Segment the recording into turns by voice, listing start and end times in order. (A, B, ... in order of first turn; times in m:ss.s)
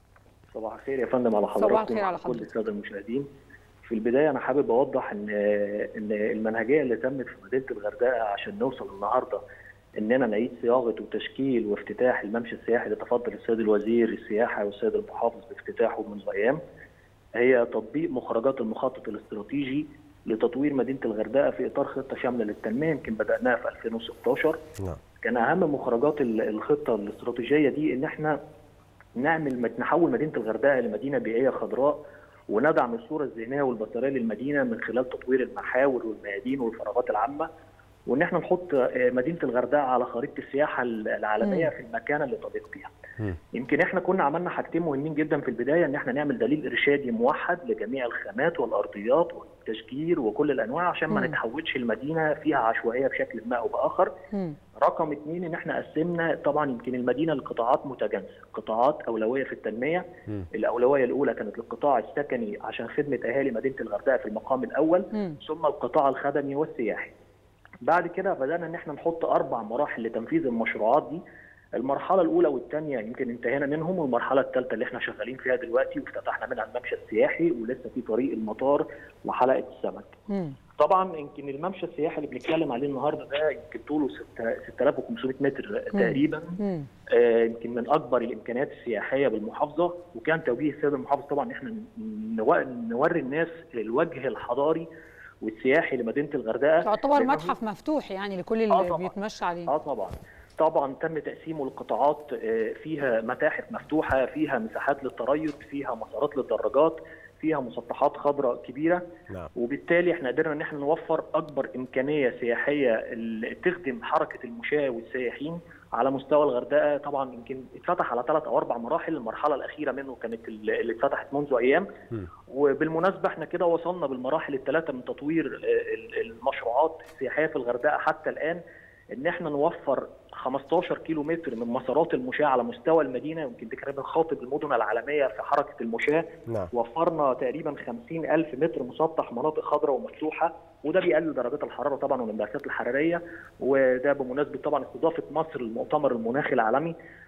0:00.5-0:03.3 A
0:01.6-0:02.4 B
0:03.8-0:09.4 A
0:10.0-0:16.6 A
0:17.4-0:24.6 A
0:25.2-0:28.4 A
0:29.2-0:37.5 A
0:38.1-0:43.0 A
0:41.4-0:41.7 B
0:43.5-0:54.1 A
0:54.8-1:07.1 A
1:07.8-1:11.2 A
1:11.8-1:20.1 A
1:20.3-1:20.6 B
1:20.8-1:26.6 A
1:25.9-1:26.9 B
1:27.1-1:34.9 A
1:35.4-1:37.6 A
1:36.8-1:39.7 B
1:38.7-1:39.1 A
1:39.7-1:49.0 A
1:49.6-2:01.9 A
2:02.5-2:08.6 A
2:09.1-2:27.0 A